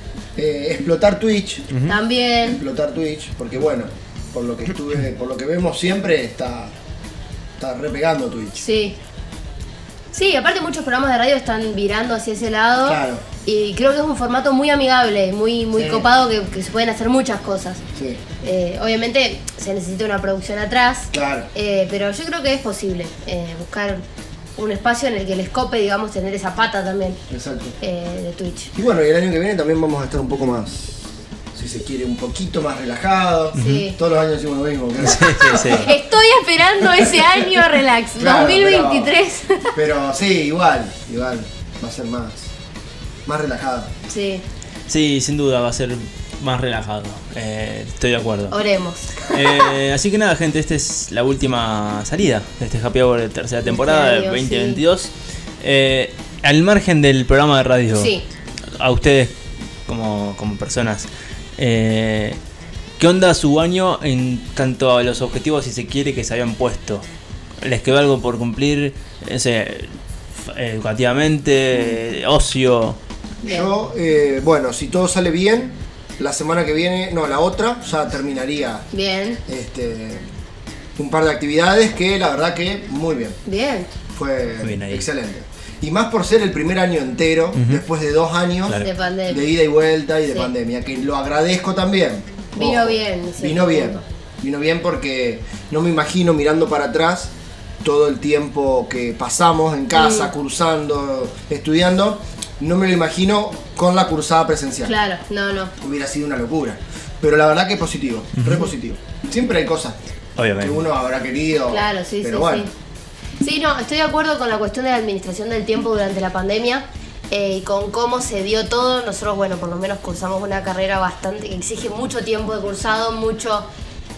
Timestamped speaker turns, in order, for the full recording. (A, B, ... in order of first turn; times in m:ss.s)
0:00.4-0:01.7 A
0:01.7-0:02.0 B
0:01.9-0:02.6 C
0:02.4-0:06.7 A
0:07.6-0:08.6 A
0:08.6-0:09.0 C
0:10.1-0:17.8 C
0:12.8-0:13.2 A
0:15.7-0:16.1 A
0:17.9-0:18.2 A
0:18.4-0:24.0 C
0:21.1-0:21.5 A
0:24.6-0:27.2 C
0:27.3-0:27.8 A
0:27.8-0:28.7 C
0:28.7-0:31.0 A
0:31.5-0:35.9 A
0:33.5-0:33.9 B
0:33.6-0:34.0 C
0:35.0-0:35.9 B
0:35.4-0:39.7 C
0:36.8-0:37.6 A
0:38.2-0:39.2 A
0:39.7-0:42.5 A
0:43.2-0:43.9 A
0:44.1-0:44.4 C
0:44.9-0:48.6 B
0:48.5-0:49.7 C
0:49.3-0:58.2 B
0:53.6-0:54.8 C
0:57.9-0:58.2 C
0:58.8-1:02.4 B
1:03.0-1:07.0 B
1:07.6-1:09.9 B
1:10.5-1:13.0 B
1:13.4-1:13.7 C
1:13.4-1:18.8 A
1:18.9-1:19.4 C
1:19.4-1:20.2 A
1:21.0-1:23.4 A
1:23.4-1:23.9 C
1:24.1-1:37.3 A
1:24.6-1:25.0 B
1:27.5-1:27.8 B
1:28.8-1:29.4 C
1:30.2-1:30.5 C
1:32.6-1:34.0 C
1:37.8-1:44.9 A
1:39.9-1:40.3 C
1:44.8-1:45.7 C
1:45.8-1:50.0 A
1:48.4-1:48.7 B
1:50.4-1:50.8 B
1:50.6-1:52.7 A
1:51.7-1:52.7 C
1:53.4-2:03.7 C